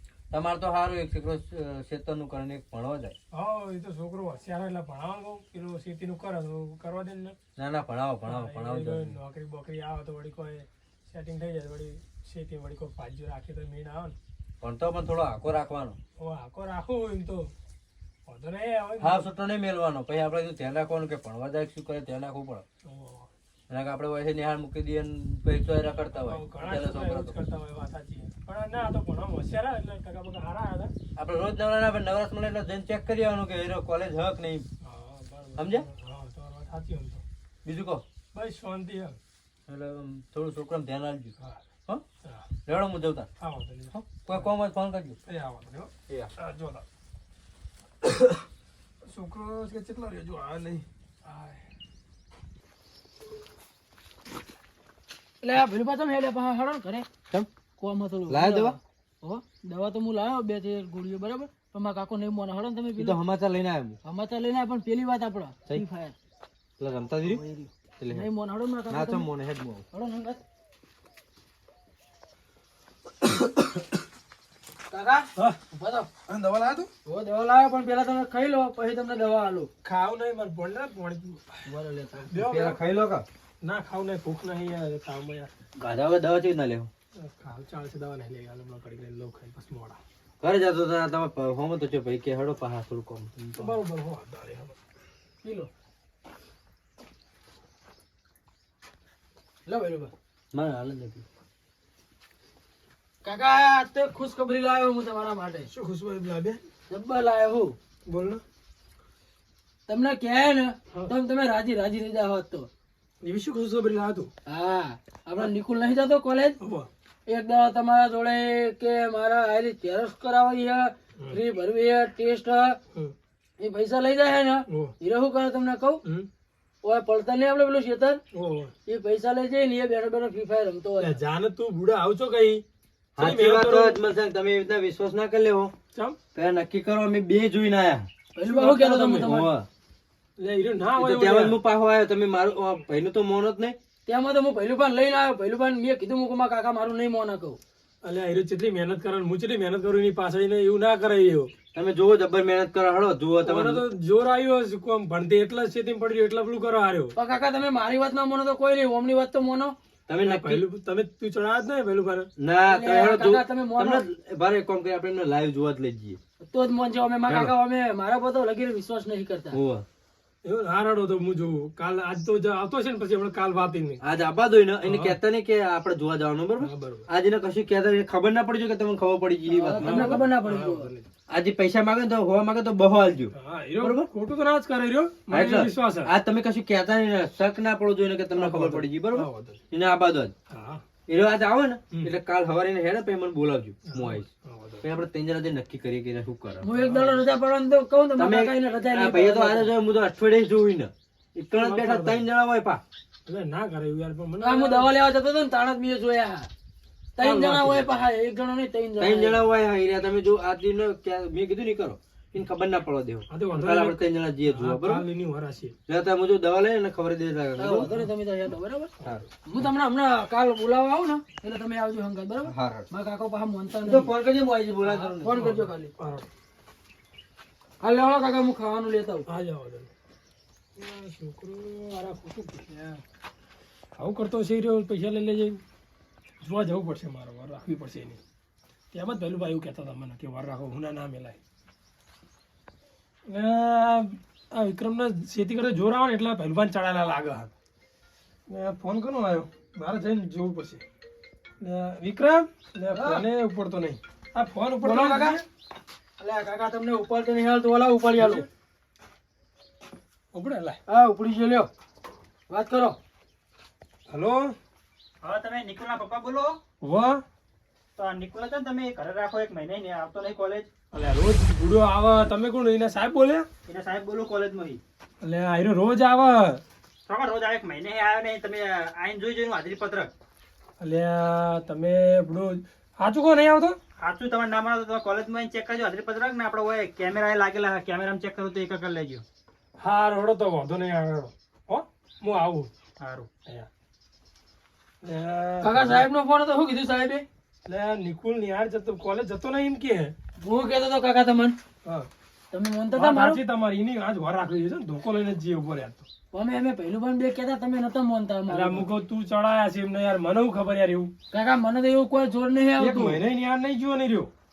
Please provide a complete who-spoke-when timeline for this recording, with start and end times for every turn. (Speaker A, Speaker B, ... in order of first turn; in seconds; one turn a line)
Speaker A: 0.3-3.2
Speaker B: 3.3-7.4
Speaker A: 7.6-9.2
Speaker B: 8.3-14.2
Speaker A: 14.6-16.0
Speaker B: 16.2-17.5
Speaker B: 18.3-19.3
Speaker A: 19.0-22.6
Speaker B: 22.9-23.3
Speaker A: 23.7-27.4
Speaker B: 26.2-30.9
Speaker A: 31.2-34.7
Speaker B: 34.8-37.2
Speaker A: 35.6-35.9
Speaker A: 37.6-38.0
Speaker B: 38.3-39.2
Speaker A: 39.7-41.3
Speaker B: 42.2-42.5
Speaker A: 42.7-43.3
Speaker B: 43.4-44.5
Speaker A: 43.9-45.2
Speaker B: 45.3-46.8
Speaker B: 49.0-51.6
Speaker C: 55.4-57.1
Speaker C: 57.8-63.2
Speaker A: 58.3-58.8
Speaker A: 63.0-64.0
Speaker C: 64.0-66.2
Speaker A: 66.8-67.4
Speaker C: 67.2-69.3
Speaker A: 68.0-68.3
Speaker A: 68.9-69.8
Speaker C: 69.9-70.4
Speaker C: 74.9-76.1
Speaker B: 76.3-76.9
Speaker C: 77.1-79.7
Speaker B: 79.8-81.6
Speaker C: 81.7-82.3
Speaker B: 82.3-82.8
Speaker A: 82.3-83.2
Speaker B: 83.6-85.5
Speaker A: 85.8-86.9
Speaker B: 87.2-90.0
Speaker A: 90.4-93.8
Speaker B: 93.6-94.8
Speaker C: 95.4-95.7
Speaker C: 99.7-100.1
Speaker A: 100.5-101.2
Speaker C: 103.2-105.7
Speaker B: 105.7-106.6
Speaker C: 106.9-107.8
Speaker B: 108.1-108.4
Speaker C: 109.9-112.7
Speaker B: 113.2-114.3
Speaker C: 114.5-116.6
Speaker B: 116.6-116.9
Speaker C: 117.3-122.8
Speaker C: 123.6-126.0
Speaker B: 124.7-124.9
Speaker C: 126.8-128.2
Speaker B: 128.3-128.7
Speaker C: 128.9-131.2
Speaker B: 131.0-132.6
Speaker A: 133.2-135.7
Speaker B: 133.2-134.0
Speaker A: 136.3-138.1
Speaker C: 138.3-139.5
Speaker B: 138.4-139.3
Speaker A: 139.2-139.7
Speaker B: 140.4-141.6
Speaker A: 140.9-143.8
Speaker C: 144.1-147.6
Speaker B: 148.0-151.5
Speaker A: 151.7-153.8
Speaker B: 153.4-157.1
Speaker C: 157.2-159.7
Speaker A: 160.1-160.7
Speaker B: 160.2-162.3
Speaker A: 162.4-166.2
Speaker C: 162.7-164.1
Speaker C: 166.4-169.6
Speaker A: 167.3-167.5
Speaker A: 169.5-169.9
Speaker B: 170.4-174.0
Speaker A: 174.0-180.3
Speaker B: 174.8-175.2
Speaker B: 176.6-177.1
Speaker C: 179.5-180.9
Speaker B: 179.7-181.1
Speaker A: 181.3-184.1
Speaker B: 183.3-186.1
Speaker A: 185.3-190.3
Speaker B: 188.3-189.6
Speaker B: 190.5-190.8
Speaker A: 191.1-194.3
Speaker B: 193.9-194.8
Speaker A: 194.8-196.7
Speaker C: 196.6-199.8
Speaker B: 196.7-197.2
Speaker A: 198.2-202.8
Speaker B: 201.6-202.2
Speaker B: 203.3-204.9
Speaker C: 204.4-206.5
Speaker C: 207.2-209.4
Speaker B: 207.2-207.9
Speaker A: 209.0-215.1
Speaker B: 213.3-215.8
Speaker A: 215.9-217.9
Speaker C: 217.6-218.9
Speaker C: 219.5-224.1
Speaker A: 222.4-222.9
Speaker A: 223.8-225.6
Speaker C: 224.8-225.9
Speaker B: 225.3-226.3
Speaker C: 227.8-229.2
Speaker B: 229.3-229.9
Speaker B: 230.8-233.0
Speaker B: 234.0-235.6
Speaker B: 236.4-238.2
Speaker B: 238.9-241.4
Speaker B: 243.3-247.5
Speaker B: 248.5-250.8
Speaker B: 251.6-255.4
Speaker C: 252.9-253.2
Speaker C: 254.8-255.4
Speaker C: 256.2-258.5
Speaker B: 258.2-258.5
Speaker B: 260.3-260.8
Speaker C: 260.9-261.7
Speaker C: 262.5-263.0
Speaker B: 264.1-264.6
Speaker D: 265.2-266.6
Speaker B: 266.8-267.2
Speaker D: 268.0-270.7
Speaker B: 270.9-273.5
Speaker D: 273.7-274.8
Speaker B: 275.2-276.6
Speaker D: 277.1-280.1
Speaker B: 280.8-283.8
Speaker D: 284.0-289.2
Speaker B: 289.8-293.7
Speaker B: 295.0-296.1
Speaker C: 295.6-297.3
Speaker B: 297.7-300.1
Speaker C: 300.4-301.6
Speaker C: 302.5-303.4
Speaker B: 302.9-306.1
Speaker C: 306.3-308.9
Speaker B: 308.5-311.1
Speaker C: 311.3-313.2
Speaker B: 312.8-314.3